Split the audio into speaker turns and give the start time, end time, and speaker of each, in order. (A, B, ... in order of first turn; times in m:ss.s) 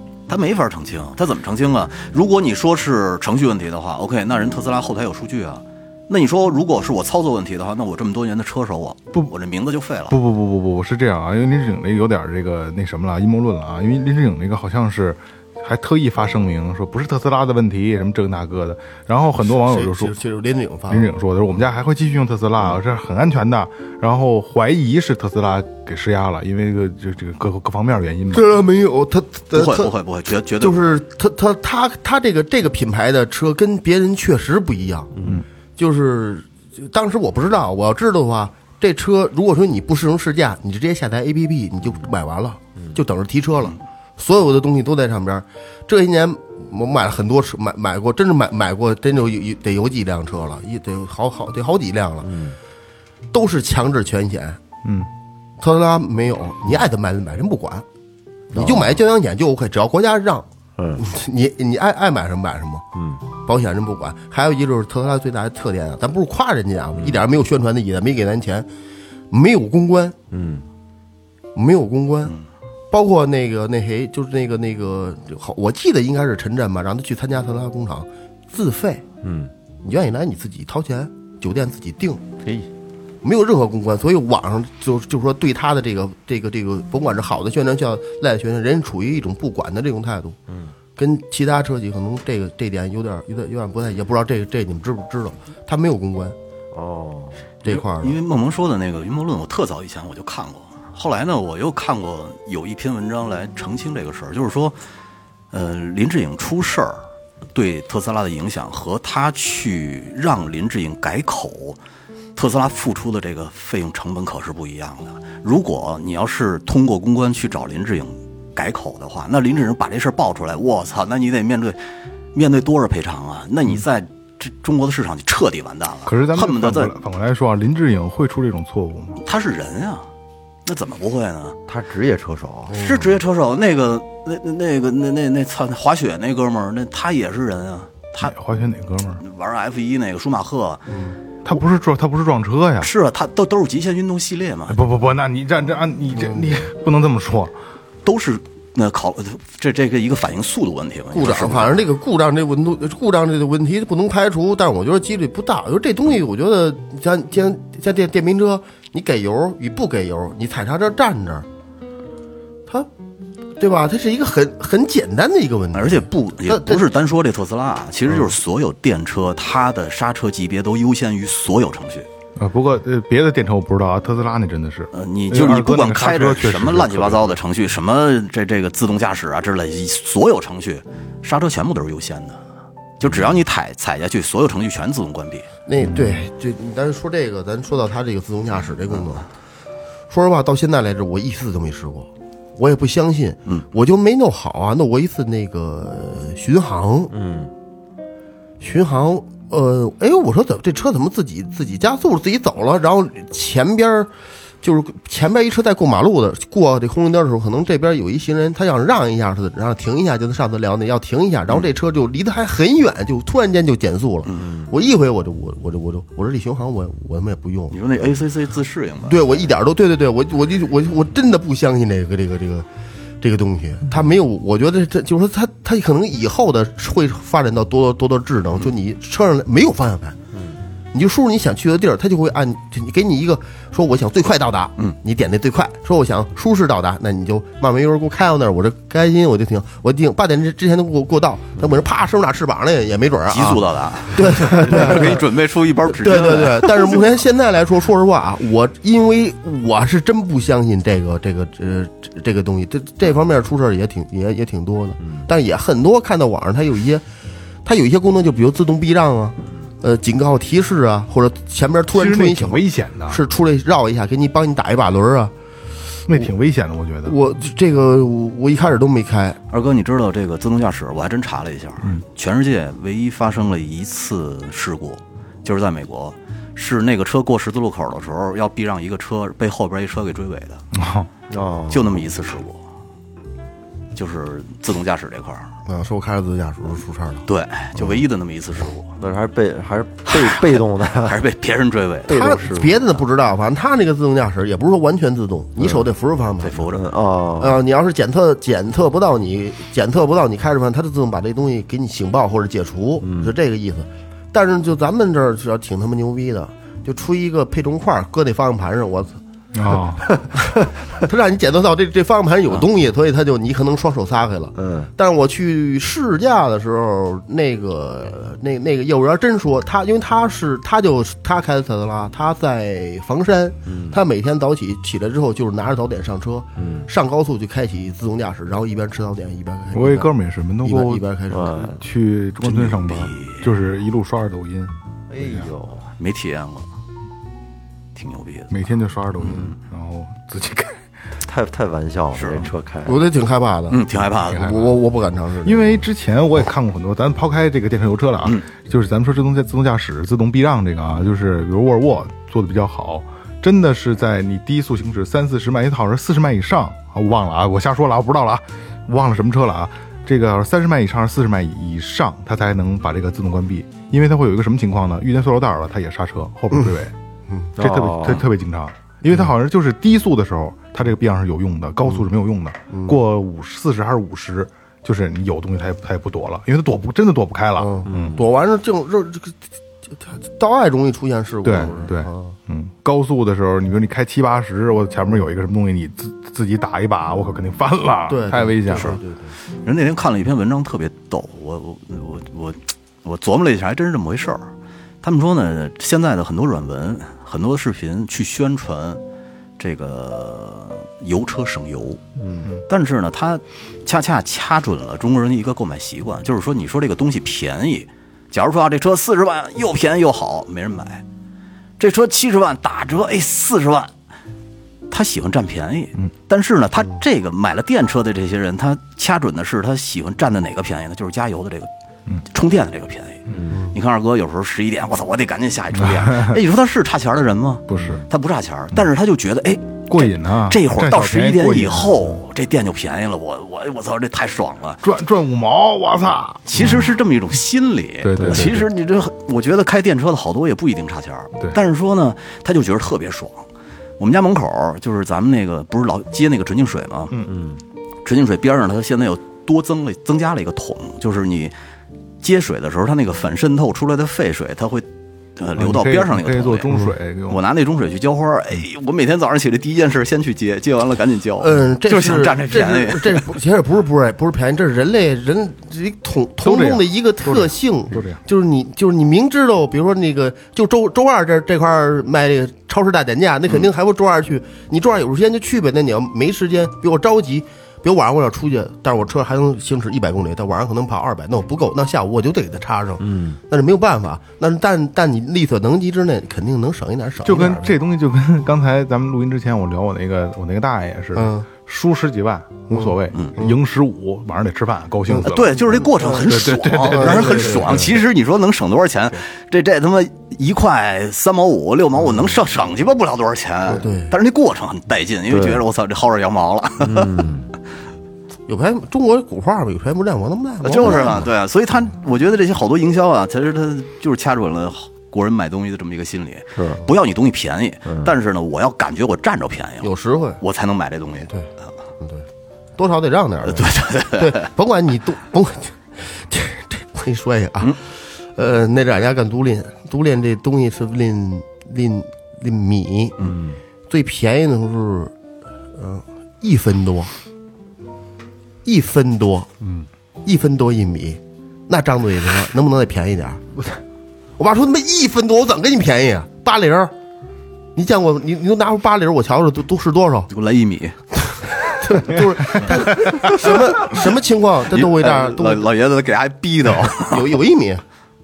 0:00.3-0:10.2 A
0:10.1-0:20.1 B
0:19.4-0:21.1 C
0:20.9-0:28.5 B
0:28.3-0:29.9 C
0:29.5-0:30.9 A
0:30.6-0:35.1 C
0:35.1-0:35.4 D
0:35.8-0:52.3 C
0:52.2-0:52.6 D
0:53.3-0:54.6 C
0:54.8-0:55.1 B
0:55.6-0:57.8 C
0:58.5-0:59.0 D
0:58.5-1:02.8 C
1:00.8-1:01.0 D
1:02.9-1:03.2 D
1:03.4-1:08.7 C
1:09.3-1:10.2 C
1:10.3-1:10.6 D
1:11.5-1:12.4 C
1:12.9-1:19.0 C
1:19.2-1:19.5 D
1:19.8-1:22.2 C
1:22.4-1:22.7 D
1:23.2-1:30.4 C
1:30.5-1:30.7 D
1:31.0-1:36.4 C
1:36.7-1:37.4 D
1:37.6-1:38.2 C
1:37.6-1:44.8 A
1:45.5-1:51.8 A
1:52.3-2:01.8 A
2:02.3-2:06.9 A
2:06.0-2:09.2 B
2:09.2-2:10.1 A
2:10.6-2:11.6 A
2:11.7-2:12.8 D
2:12.7-2:13.2 C
2:12.7-2:18.3 A
2:18.2-2:19.2 B
2:19.2-2:20.8 A
2:20.9-2:21.2 C
2:21.4-2:22.9 B
2:22.8-2:24.8 A
2:24.7-2:27.5 B
2:26.1-2:26.6 C
2:28.0-2:31.8 A
2:31.1-2:41.4 C
2:43.6-2:46.9 C
2:45.7-2:52.1 A
2:52.4-2:57.4 B
2:54.9-3:02.4 A
3:03.0-3:05.5 A
3:05.7-3:09.2 C
3:05.8-3:06.2 B
3:10.1-3:17.1 C
3:17.1-3:17.5 D
3:18.6-3:24.1 C
3:24.6-3:37.8 C
3:37.7-3:39.5 A
3:39.0-3:42.6 C
3:43.2-3:50.2 C
3:50.3-3:50.6 D
3:50.9-4:05.2 C
4:03.3-4:07.0 A
4:05.9-4:17.0 C
4:17.6-4:25.3 C
4:21.9-4:23.2 B
4:26.1-4:27.1 B
4:27.0-4:29.4 C
4:29.5-4:40.6 A
4:40.7-4:41.1 B
4:41.3-4:42.0 D
4:41.7-4:42.6 A
4:43.9-4:45.5 A
4:45.6-4:47.2 C
4:47.3-4:48.9 A
4:49.0-4:51.2 D
4:50.1-4:52.1 A
4:52.1-4:53.0 D
4:52.1-4:56.7 C
4:56.4-4:56.8 A
4:56.7-4:57.6 D
4:57.4-5:09.2 C
5:03.0-5:03.3 D
5:09.5-5:10.0 B
5:10.3-5:30.1 C
5:14.6-5:14.9 D
5:23.7-5:24.0 D
5:26.6-5:26.9 D
5:29.7-5:31.0 B
5:30.6-5:31.7 C
5:31.3-5:31.8 D
5:31.7-5:35.5 B
5:32.4-5:33.5 A
5:35.1-5:35.8 D
5:36.0-5:36.7 A
5:37.9-5:38.5 A
5:38.5-5:40.8 B
5:41.2-5:43.0 D
5:42.1-5:42.5 A
5:42.8-5:45.6 C
5:43.7-5:44.7 A
5:44.3-5:44.6 B
5:45.4-6:06.9 B
6:07.6-6:08.3 D
6:07.6-6:18.2 B
6:12.7-6:13.0 C
6:17.6-6:19.3 C
6:17.8-6:18.2 D
6:20.0-6:22.3 C
6:21.4-6:29.0 B
6:28.1-6:29.3 C
6:28.7-6:29.0 A
6:29.5-6:34.5 A
6:35.0-6:39.0 A
6:39.6-6:42.0 A
6:42.2-6:42.4 D
6:42.7-6:51.0 A
6:51.8-6:53.9 A
6:54.9-7:01.7 A
7:02.3-7:14.8 A
7:03.3-7:03.5 B
7:05.8-7:06.4 B
7:07.7-7:08.0 B
7:07.7-7:08.0 D
7:09.9-7:12.2 B
7:14.8-7:16.9 B
7:16.5-7:23.5 A
7:18.0-7:18.6 B
7:18.2-7:18.5 D
7:24.0-7:27.1 A
7:27.3-7:27.6 D
7:28.0-7:31.5 A
7:32.2-7:36.7 A
7:35.6-7:37.4 B
7:37.3-7:43.3 A
7:41.4-8:07.7 C
7:46.4-7:48.2 B
8:03.0-8:03.4 D
8:07.2-8:18.0 B
8:11.1-8:11.5 C
8:12.7-8:13.6 C
8:15.1-8:16.3 C
8:15.2-8:27.2 A
8:16.8-8:17.9 C
8:22.0-8:22.4 C
8:23.7-8:24.1 C
8:25.3-8:25.6 D
8:26.8-8:27.5 D
8:28.5-8:31.2 C
8:30.6-8:41.7 A
8:36.5-8:36.8 D
8:37.8-8:38.1 D
8:39.8-8:40.4 C
8:42.0-8:42.2 C
8:42.8-8:53.2 C
8:43.4-8:44.5 A
8:53.2-8:53.6 D
8:53.9-8:55.1 C
8:55.7-8:57.1 C
8:58.6-8:59.5 C
9:00.2-9:03.4 C
9:04.4-9:06.9 C
9:07.7-9:10.3 C
9:10.3-9:11.0 A
9:11.1-9:15.7 C
9:12.1-9:13.6 B
9:14.7-9:17.3 A
9:16.9-9:17.8 C